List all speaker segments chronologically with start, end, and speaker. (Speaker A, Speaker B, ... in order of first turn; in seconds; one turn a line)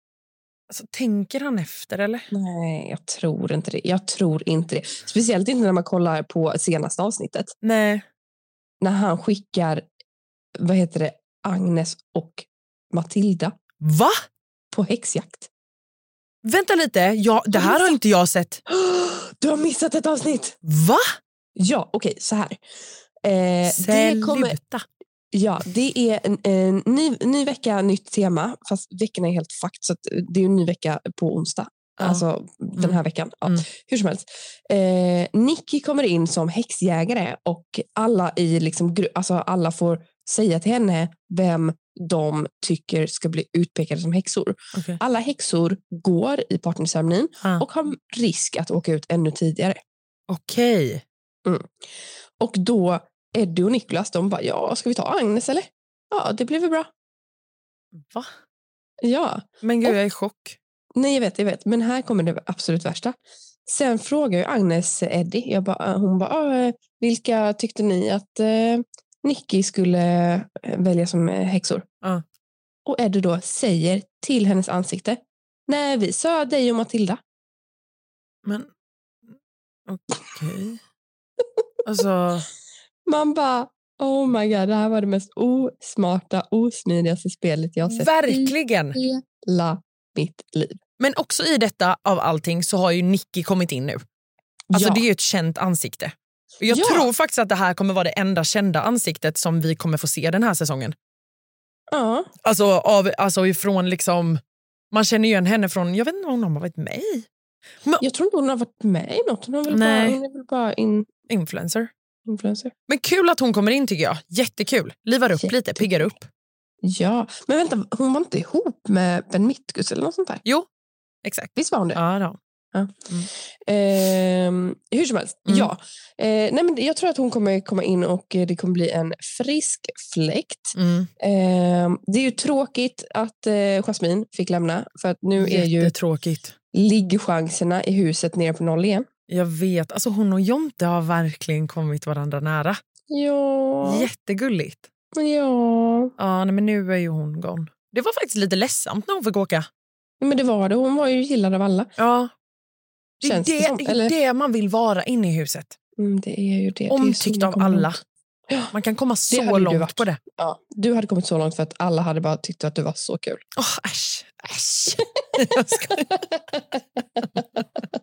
Speaker A: 0.7-2.3
Speaker B: 2.3-7.5
Speaker A: 7.6-8.0
Speaker B: 8.8-9.8
Speaker B: 10.6-13.5
Speaker A: 13.8-14.1
Speaker B: 14.7-15.5
Speaker A: 16.4-18.6
Speaker B: 17.5-18.0
Speaker B: 18.7-20.5
Speaker A: 20.6-21.0
Speaker B: 21.6-22.6
Speaker B: 23.2-24.6
Speaker A: 23.6-24.8
Speaker B: 25.3-49.8
Speaker A: 32.0-32.2
Speaker A: 32.8-33.6
Speaker A: 50.3-51.0
Speaker B: 52.4-56.9
Speaker A: 58.0-58.3
Speaker B: 59.0-60.0
Speaker A: 59.6-60.6
Speaker B: 61.0-63.1
Speaker B: 63.7-71.8
Speaker B: 72.8-77.2
Speaker A: 79.9-80.8
Speaker A: 81.8-82.5
Speaker B: 83.0-90.8
Speaker A: 87.9-89.0
Speaker A: 91.0-94.0
Speaker B: 94.7-95.1
Speaker A: 94.7-100.9
Speaker B: 96.7-97.1
Speaker B: 101.9-102.3
Speaker A: 102.4-104.4
Speaker A: 104.9-107.2
Speaker B: 108.0-111.1
Speaker A: 109.7-110.2
Speaker A: 111.3-111.9
Speaker B: 112.3-112.7
Speaker A: 112.9-116.2
Speaker B: 115.3-116.1
Speaker B: 116.8-120.4
Speaker A: 121.2-122.4
Speaker B: 121.5-122.0
Speaker B: 122.7-135.9
Speaker A: 125.5-125.7
Speaker A: 130.7-131.1
Speaker A: 135.4-136.5
Speaker B: 136.7-139.1
Speaker A: 139.3-142.8
Speaker B: 143.1-144.1
Speaker A: 143.8-144.8
Speaker B: 145.1-146.1
Speaker A: 146.2-149.7
Speaker B: 150.2-151.9
Speaker A: 152.0-152.3
Speaker A: 153.2-155.7
Speaker B: 153.2-154.1
Speaker B: 156.0-157.9
Speaker A: 156.9-158.0
Speaker B: 158.5-158.7
Speaker A: 158.7-160.2
Speaker B: 159.3-163.4
Speaker A: 163.6-166.1
Speaker B: 165.7-167.4